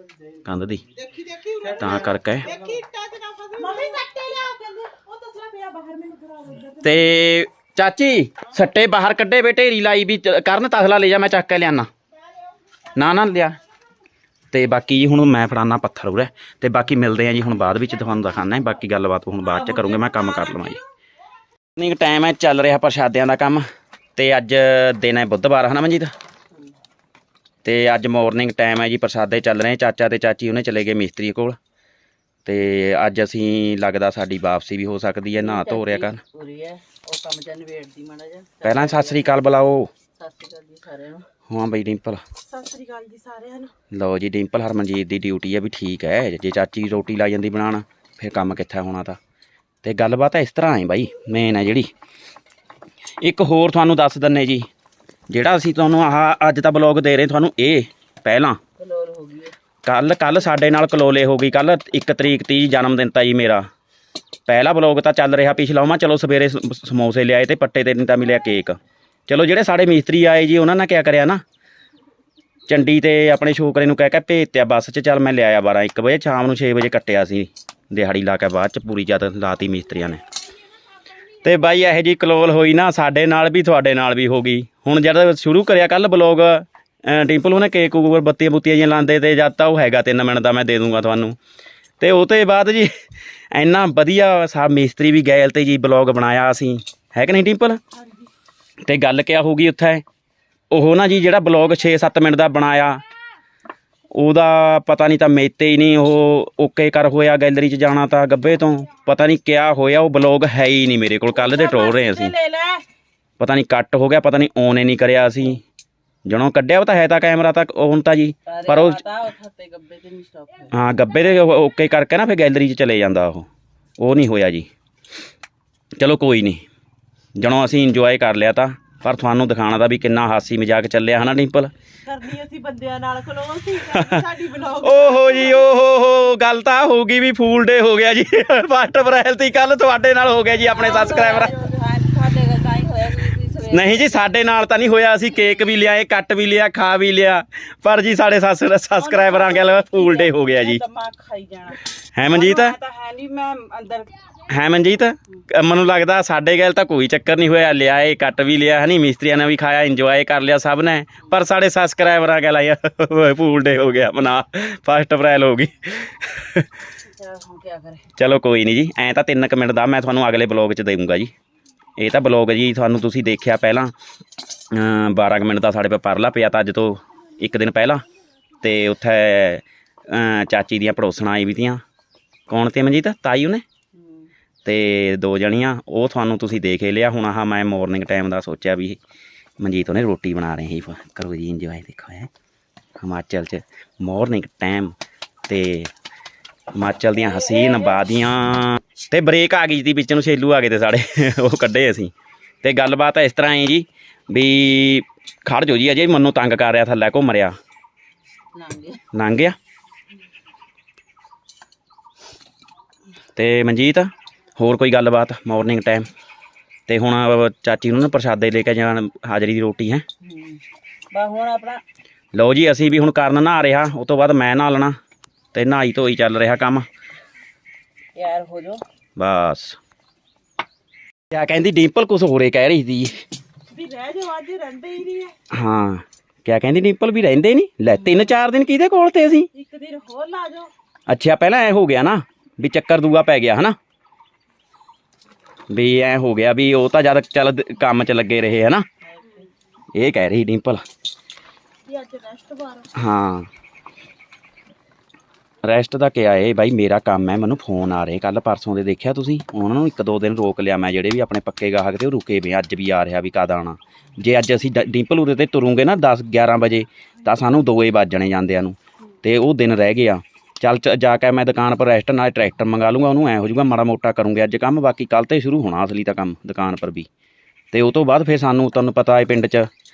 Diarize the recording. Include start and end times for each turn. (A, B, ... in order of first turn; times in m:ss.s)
0:00.4-0:00.8 A
0:00.9-0:07.2 B
0:01.7-0:02.5 A
0:06.8-0:11.9 A
0:12.9-0:13.6 A
0:14.5-0:20.8 A
0:19.4-0:20.8 C
0:21.8-0:26.1 A
0:27.6-0:31.6 A
0:32.4-0:36.2 A
0:35.4-0:39.4 C
0:38.6-0:39.9 A
0:40.2-0:41.2 C
0:41.5-0:42.2 A
0:42.4-0:43.7 B
0:43.9-0:49.2 A
0:49.8-0:51.9 A
0:53.2-0:54.7 A
0:55.3-0:58.6 A
0:58.8-0:59.5 C
0:59.8-1:03.7 A
1:04.5-1:11.4 A
1:12.7-1:20.2 A
1:21.4-1:31.4 A
1:32.0-1:32.9 A
1:33.5-1:37.8 A
1:37.9-1:38.3 B
1:38.8-1:40.0 A
1:40.7-1:43.0 A
1:44.1-1:52.3 A
1:51.3-1:52.8 C
1:53.4-1:55.6 A
1:56.2-1:59.0 A
1:58.4-2:00.7 C
2:00.7-2:04.7 A
2:06.0-2:06.6 A
2:07.4-2:11.7 A
2:12.0-2:15.7 B
2:13.9-2:14.2 A
2:14.8-2:21.5 A
2:20.7-2:24.1 C
2:23.7-2:30.8 A
2:29.0-2:34.1 C
2:32.1-2:32.8 A
2:34.5-2:46.7 A
2:47.0-2:48.0 C
2:48.2-2:51.3 A
2:52.0-2:53.9 A
2:54.7-2:58.0 A
2:58.6-3:01.8 A
3:02.5-3:03.6 A
3:03.9-3:04.3 C
3:04.6-3:09.0 A
3:09.6-3:12.3 A
3:13.0-3:14.9 A
3:15.5-3:15.9 A
3:16.7-3:22.1 A
3:17.2-3:18.1 C
3:22.6-3:27.6 A
3:28.5-3:29.0 C
3:29.1-3:29.6 A
3:33.4-3:36.1 A
3:36.9-3:40.0 A
3:40.2-3:40.6 C
3:41.1-3:41.8 C
3:42.3-3:45.0 A
3:45.5-3:46.9 A
3:48.1-3:48.8 C
3:49.2-3:49.8 A
3:51.3-3:53.2 A
3:53.7-3:55.3 B
3:55.5-3:59.5 A
3:59.5-4:00.7 B
4:01.1-4:03.8 A
4:05.7-4:08.9 A
4:09.0-4:09.5 C
4:09.9-4:10.8 A
4:11.8-4:12.9 B
4:12.9-4:13.5 A
4:15.6-4:37.1 A
4:37.7-4:39.7 A